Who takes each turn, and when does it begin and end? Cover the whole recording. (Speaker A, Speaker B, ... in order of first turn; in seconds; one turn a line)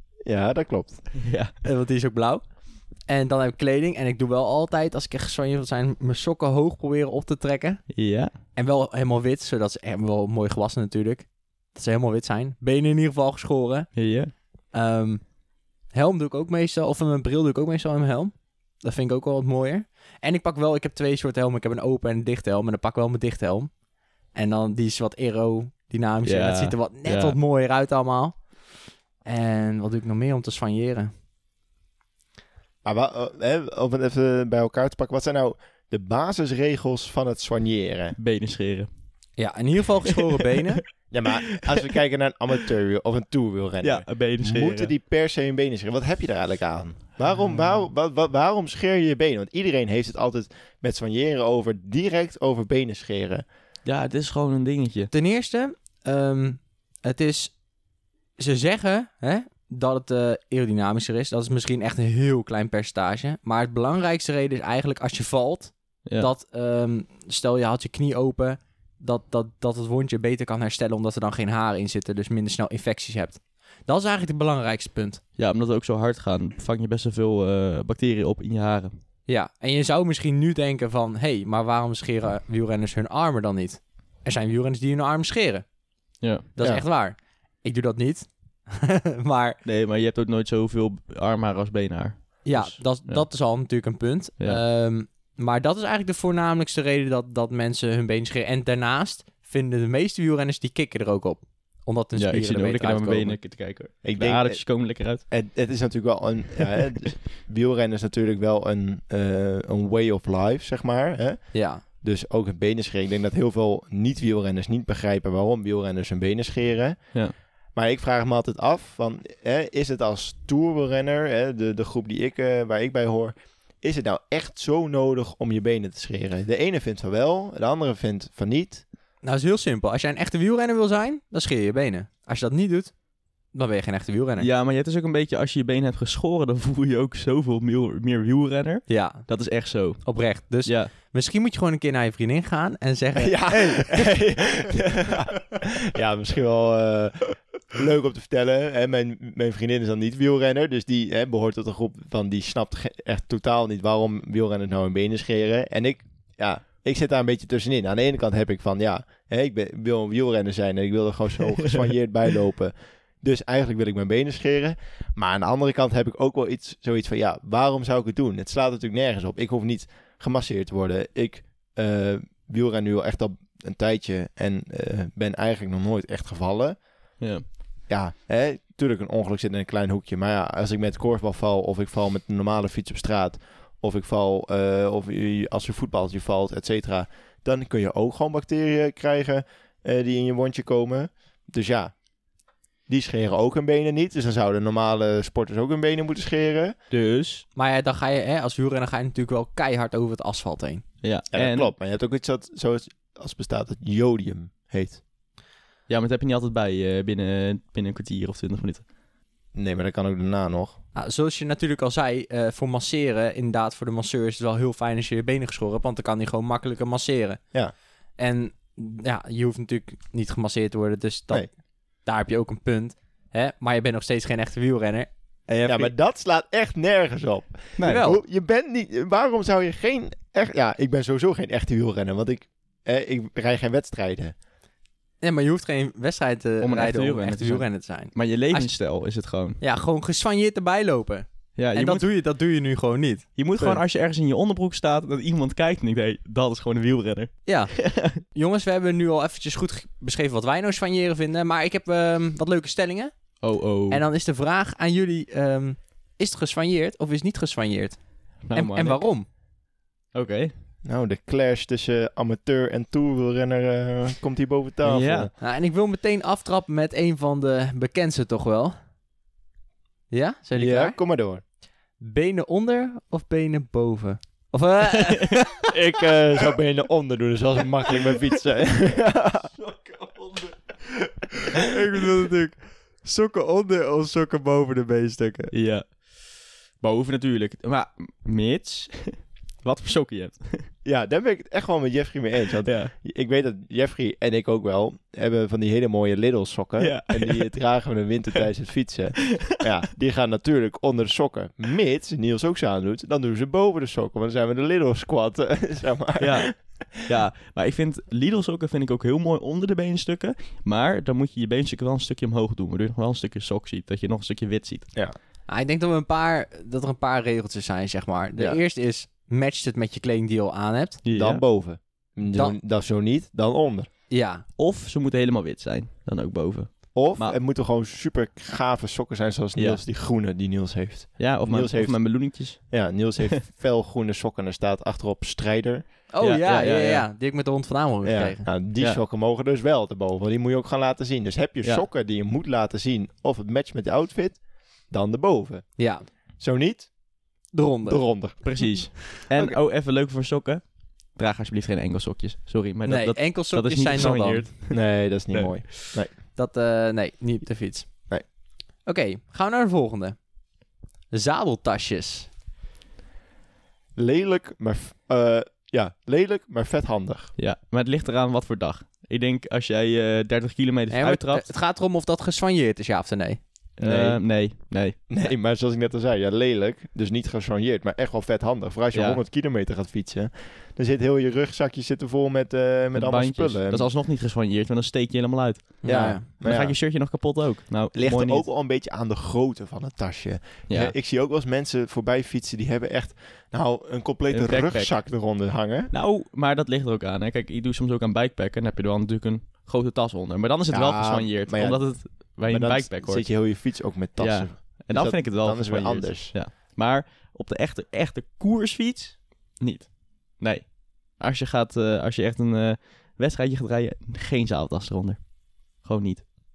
Speaker A: 0.2-1.2
Speaker B: 1.2-1.5
Speaker C: 1.6-28.7
Speaker B: 7.9-8.3
Speaker B: 13.9-14.3
Speaker B: 26.2-27.4
Speaker C: 29.2-31.1
Speaker A: 32.8-38.2
Speaker B: 38.2-38.9
Speaker C: 39.4-40.8
Speaker A: 41.1-53.4
Speaker B: 43.8-44.9
Speaker B: 53.8-55.1
Speaker C: 55.1-57.8
Speaker C: 58.4-75.2
Speaker B: 75.4-79.0
Speaker C: 79.3-89.6
Speaker B: 86.2-86.4
Speaker B: 89.6-93.3
Speaker C: 92.4-103.4
Speaker B: 102.2-105.2
Speaker A: 104.0-128.8
Speaker C: 111.5-111.8
Speaker C: 129.2-134.5
Speaker B: 134.4-140.9
Speaker C: 138.9-144.2
Speaker A: 143.2-177.2
Speaker B: 177.2-177.4
Speaker A: 177.9-192.0
Speaker A: 192.8-196.7
Speaker B: 196.9-197.4
Speaker C: 197.5-200.8
Speaker B: 201.0-201.7
Speaker A: 201.3-205.0
Speaker B: 205.9-208.9
Speaker A: 209.5-210.8
Speaker C: 210.9-225.9
Speaker A: 225.7-234.3
Speaker B: 227.8-228.1
Speaker C: 227.8-228.2
Speaker C: 235.2-238.7
Speaker B: 236.6-239.6
Speaker C: 239.6-243.8
Speaker B: 241.6-242.1
Speaker B: 243.4-248.1
Speaker C: 247.4-259.3
Speaker B: 253.4-254.0
Speaker B: 258.4-259.2
Speaker B: 260.1-260.5
Speaker A: 260.8-265.3
Speaker B: 264.8-265.3
Speaker C: 265.4-268.8
Speaker C: 270.1-271.0
Speaker A: 270.5-271.4
Speaker C: 272.0-275.4
Speaker A: 275.7-279.5
Speaker B: 279.6-280.6
Speaker C: 281.7-285.5
Speaker B: 285.5-290.7
Speaker A: 290.8-306.8
Speaker B: 292.6-292.9
Speaker B: 296.8-297.7
Speaker B: 306.2-314.9
Speaker C: 315.5-321.0
Speaker B: 321.0-321.4
Speaker A: 321.1-323.9
Speaker C: 324.1-324.4
Speaker B: 324.6-327.4
Speaker A: 326.9-335.9
Speaker B: 329.6-329.8
Speaker B: 331.2-333.1
Speaker C: 336.1-338.5
Speaker B: 336.2-337.1
Speaker A: 338.0-347.2
Speaker C: 345.8-346.1
Speaker C: 347.5-348.8
Speaker A: 347.8-349.6
Speaker B: 348.4-355.6
Speaker C: 352.9-354.5
Speaker A: 354.7-356.1
Speaker C: 356.2-360.4
Speaker C: 361.1-362.3
Speaker A: 363.9-367.3
Speaker B: 367.4-371.5
Speaker C: 370.9-374.2
Speaker B: 373.8-375.0
Speaker A: 375.1-383.9
Speaker B: 378.9-379.2
Speaker B: 382.9-388.5
Speaker C: 385.8-386.2
Speaker A: 385.8-386.8
Speaker A: 387.9-395.9
Speaker B: 394.3-416.2
Speaker A: 400.7-406.4